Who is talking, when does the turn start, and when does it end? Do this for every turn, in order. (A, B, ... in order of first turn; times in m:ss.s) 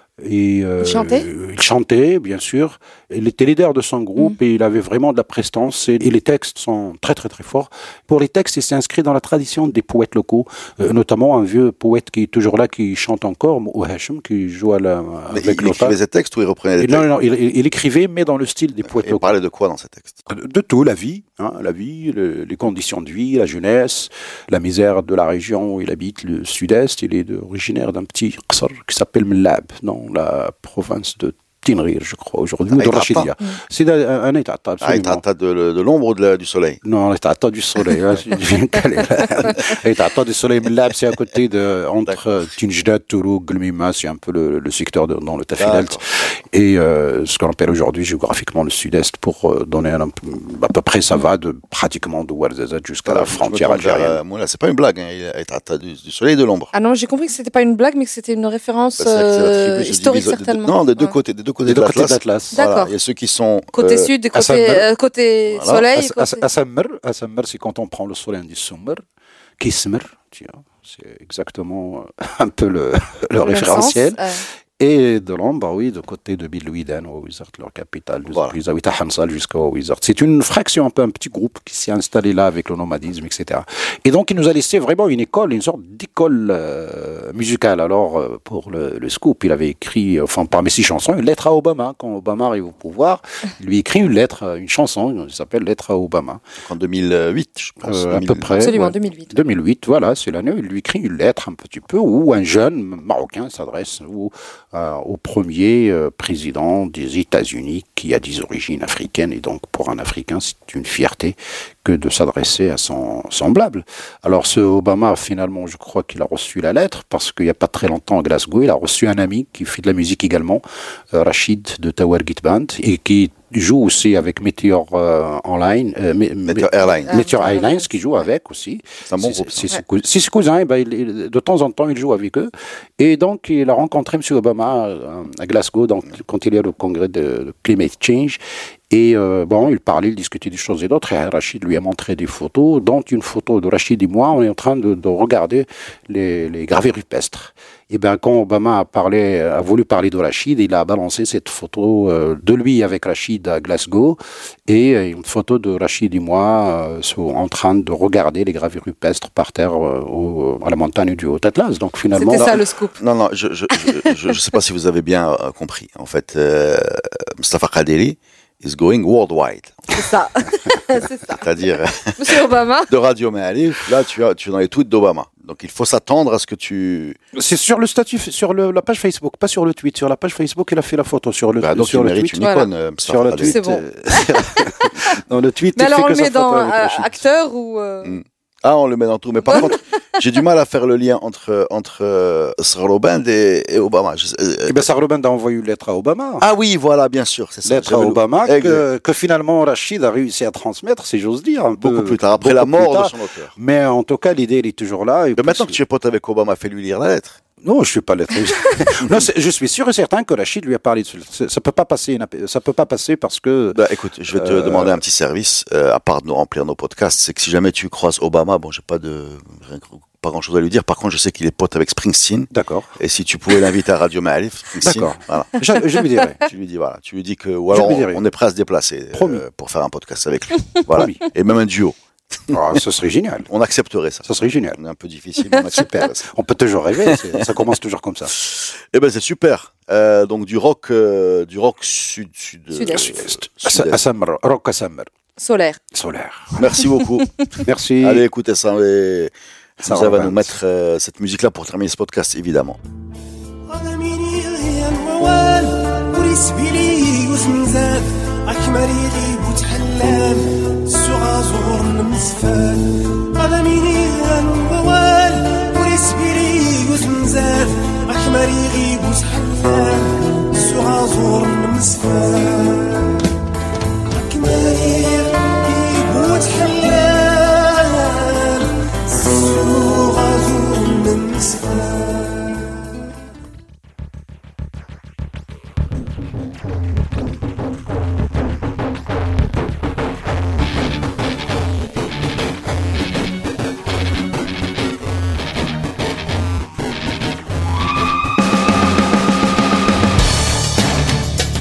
0:00.2-0:16.0 A
0:00.8-0:01.3 B
0:15.3-0:17.1 C
0:16.8-0:19.3 A
0:18.8-0:20.2 C
0:20.3-0:35.2 A
0:32.7-0:33.3 C
0:34.8-0:36.8 C
0:36.8-0:54.2 A
0:45.6-0:46.3 C
0:53.0-0:56.7 C
0:56.7-1:01.2 B
0:59.0-1:04.1 C
1:01.6-1:02.5 A
1:02.5-1:02.9 B
1:03.7-1:06.4 B
1:04.3-1:04.8 A
1:05.5-1:05.8 C
1:05.9-1:09.0 A
1:09.6-1:14.2 A
1:13.4-1:14.4 B
1:14.8-1:36.4 A
1:18.3-1:18.6 C
1:36.6-1:38.7 C
1:37.8-2:18.4 A
1:38.6-1:39.4 B
2:06.4-2:07.2 C
2:06.9-2:07.9 B
2:09.1-2:09.7 C
2:18.9-2:42.6 A
2:42.1-2:43.0 B
2:42.3-2:49.9 C
2:43.8-2:44.1 B
2:49.9-2:51.5 B
2:51.3-2:57.2 C
2:52.2-2:52.9 B
2:57.4-3:02.5 A
3:01.6-3:03.6 C
3:02.4-3:02.7 B
3:03.0-3:07.2 A
3:03.4-3:05.2 B
3:05.8-3:08.2 B
3:08.0-3:14.8 C
3:09.5-3:09.8 B
3:14.7-3:16.4 A
3:16.4-3:18.8 C
3:17.6-3:25.8 A
3:21.8-3:23.5 C
3:25.4-3:27.4 C
3:27.6-3:35.0 A
3:33.7-3:45.6 C
3:42.5-3:42.9 A
3:44.8-3:46.4 A
3:46.4-3:52.8 C
3:47.7-3:48.2 A
3:49.1-3:49.4 A
3:50.9-3:51.2 A
3:52.5-3:53.5 A
3:53.5-3:56.3 C
3:54.2-3:54.8 A
3:55.6-3:58.3 A
3:57.0-3:57.5 C
3:58.3-4:04.0 C
4:02.7-4:03.1 B
4:02.9-4:05.1 A
4:05.4-4:05.8 B
4:05.9-4:06.8 A
4:06.6-4:07.3 C
4:07.6-4:08.2 A
4:08.0-4:12.8 C
4:09.8-4:10.6 A
4:13.7-4:33.1 D
4:13.9-4:14.9 A
4:16.3-4:18.0 A
4:19.8-4:20.1 A
4:34.1-4:42.4 D